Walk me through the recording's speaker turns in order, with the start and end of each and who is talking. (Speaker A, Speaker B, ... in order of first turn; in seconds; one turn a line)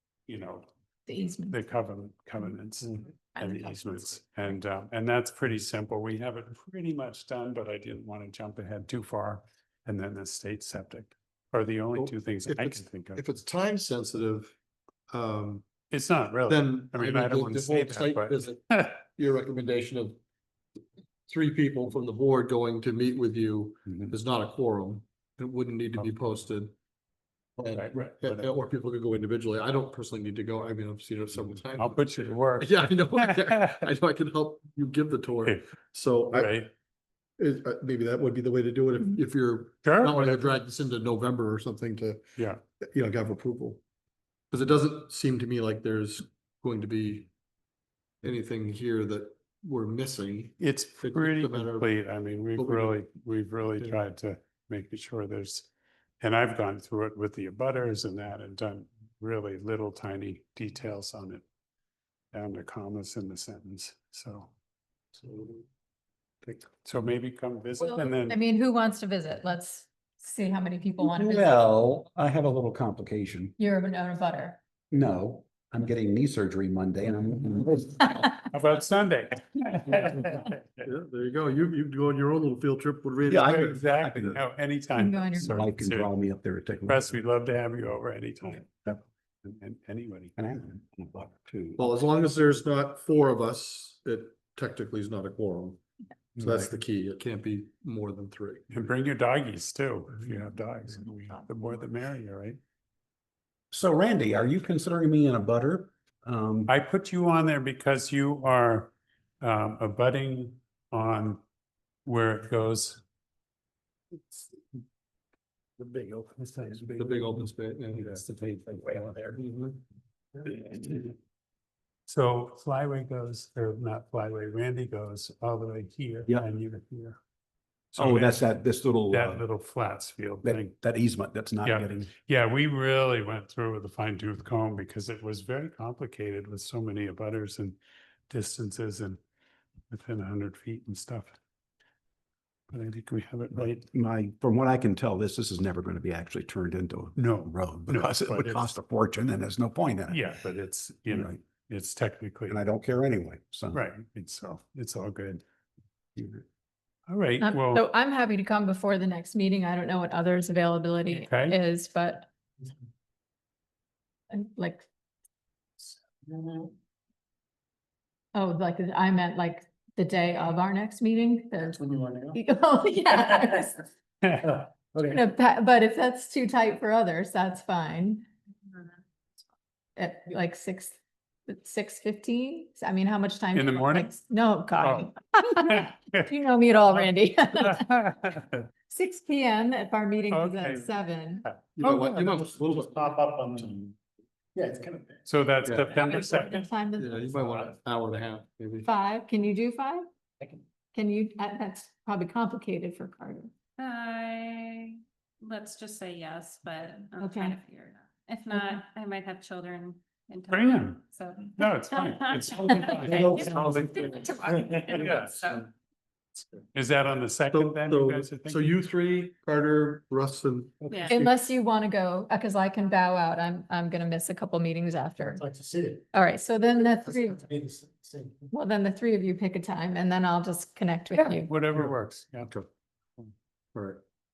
Speaker A: 0.3-0.7
Speaker B: 1.1-1.6
Speaker A: 1.5-13.2
Speaker B: 3.4-4.0
Speaker C: 11.9-14.5
Speaker C: 15.1-15.7
Speaker A: 15.9-19.0
Speaker C: 16.5-20.2
Speaker C: 21.3-26.8
Speaker C: 27.6-36.6
Speaker A: 27.7-28.5
Speaker A: 31.8-33.9
Speaker A: 35.5-35.7
Speaker A: 36.3-36.7
Speaker C: 37.4-42.2
Speaker A: 39.8-40.5
Speaker C: 42.8-43.8
Speaker C: 44.5-47.3
Speaker C: 48.2-51.9
Speaker A: 50.6-61.5
Speaker C: 52.5-53.1
Speaker A: 62.3-64.5
Speaker C: 65.2-65.7
Speaker A: 66.8-68.4
Speaker B: 67.8-71.6
Speaker D: 71.0-73.6
Speaker B: 73.6-74.6
Speaker D: 74.9-78.3
Speaker A: 78.5-80.9
Speaker C: 80.8-83.8
Speaker D: 83.3-84.4
Speaker A: 83.5-86.1
Speaker B: 85.0-85.6
Speaker D: 85.4-87.1
Speaker A: 86.9-90.4
Speaker D: 90.4-91.9
Speaker C: 91.8-95.8
Speaker C: 96.4-98.7
Speaker A: 98.7-102.6
Speaker D: 103.7-106.7
Speaker A: 106.7-111.4
Speaker A: 112.0-113.0
Speaker D: 115.8-117.2
Speaker C: 117.0-118.2
Speaker D: 118.0-119.4
Speaker A: 122.1-127.2
Speaker A: 127.9-128.5
Speaker D: 128.0-129.5
Speaker A: 129.1-130.7
Speaker D: 130.4-132.1
Speaker A: 131.6-137.8
Speaker A: 138.3-139.2
Speaker A: 139.9-141.4
Speaker A: 142.7-143.9
Speaker D: 143.5-150.2
Speaker A: 147.2-148.8
Speaker A: 150.1-152.6
Speaker D: 151.1-151.4
Speaker D: 152.5-153.9
Speaker A: 153.7-155.4
Speaker A: 157.1-157.9
Speaker B: 157.4-162.3
Speaker A: 161.1-161.6
Speaker B: 164.3-164.9
Speaker E: 166.3-166.7
Speaker B: 168.3-173.8
Speaker E: 171.8-172.4
Speaker E: 174.5-175.2
Speaker B: 174.9-178.3
Speaker B: 180.0-188.1
Speaker A: 183.5-184.1
Speaker A: 184.8-186.2
Speaker A: 187.7-188.5
Speaker B: 188.9-191.4
Speaker A: 190.3-192.1
Speaker C: 191.8-193.0
Speaker E: 192.2-193.9
Speaker E: 194.6-195.2
Speaker A: 195.3-196.7
Speaker C: 195.6-196.0
Speaker B: 196.0-197.1
Speaker C: 197.0-198.9
Speaker E: 197.2-197.7
Speaker B: 198.8-200.0
Speaker B: 200.9-203.5
Speaker F: 203.8-215.3
Speaker B: 207.2-207.6
Speaker A: 210.5-214.0
Speaker E: 213.0-215.6
Speaker A: 214.8-215.4
Speaker A: 216.7-218.8
Speaker C: 217.5-221.3
Speaker B: 221.1-225.4
Speaker E: 225.4-226.0
Speaker B: 226.1-227.5
Speaker E: 227.4-228.5
Speaker B: 228.5-231.6
Speaker A: 231.2-232.5
Speaker C: 233.8-234.0